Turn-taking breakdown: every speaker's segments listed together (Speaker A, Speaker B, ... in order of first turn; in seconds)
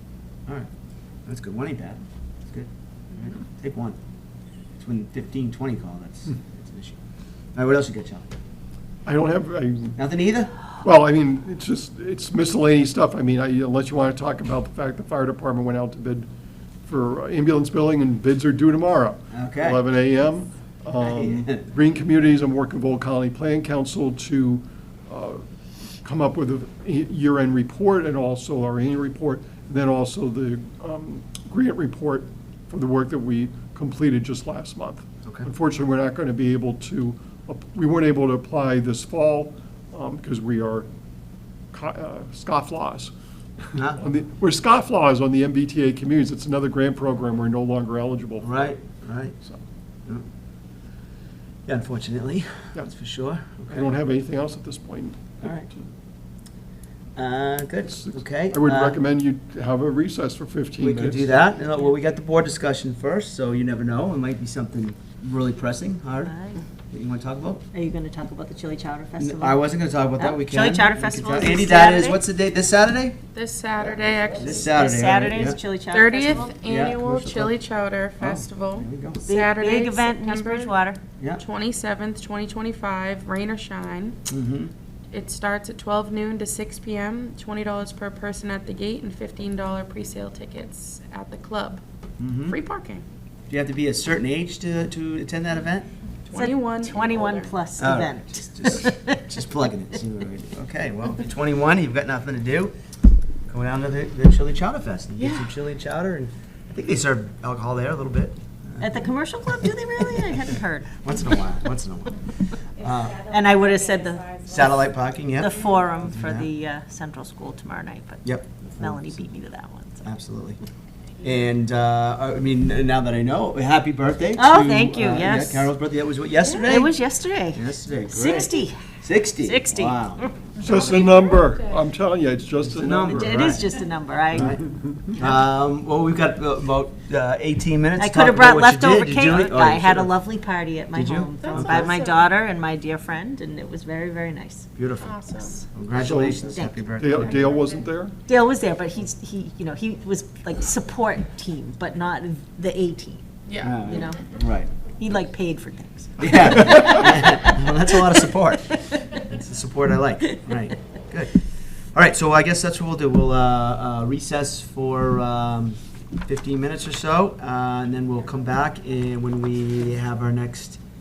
Speaker A: 1.3-4.0, 4.8-7.0, 7.5-8.3, 10.0-10.6, 19.3-19.8, 21.0-21.6, 43.8-44.0, 48.4-49.4, 51.7-53.9, 55.4-55.7, 57.2-59.0, 60.8-66.3, 66.9-67.7, 69.2-73.2, 73.8-75.6, 76.5-77.6, 78.2-79.2, 84.3-84.7, 92.2-92.6, 93.5-95.9, 97.8-102.7, 103.5-110.2, 111.0-112.2, 112.8-113.3, 114.5-116.5, 118.2-119.3, 120.0-120.6, 121.2-130.2, 132.6-133.7, 134.3-140.1, 140.9-141.9, 144.8-145.2, 145.7-147.5, 153.6-154.7, 156.2-161.4, 161.9-170.8
Speaker B: 9.1-10.0, 10.8-16.3, 16.9-25.5, 26.0-40.9, 41.7-43.1, 43.7-48.6, 53.7-55.8, 57.9-61.3, 130.6-133.6, 146.0-148.2, 156.7-157.0
Speaker C: 66.2-66.6, 67.7-69.6, 70.2-72.2, 74.5-76.5, 79.2-81.0, 96.3-99.2, 105.2-105.5, 108.8-110.9, 113.2-114.8, 115.4-120.1, 124.3-125.7, 126.7-130.3, 133.0-134.6, 138.0-144.7, 146.5-146.9, 148.3-153.2, 153.8-154.2, 155.0-157.7
Speaker D: 73.3-74.8, 75.9-80.8, 81.4-84.2, 85.1-91.8, 92.5-93.0, 96.3-97.5, 113.4-113.9, 115.5-115.9, 130.6-131.8, 141.4-142.2, 145.0-145.6, 147.1-147.8, 153.5-153.8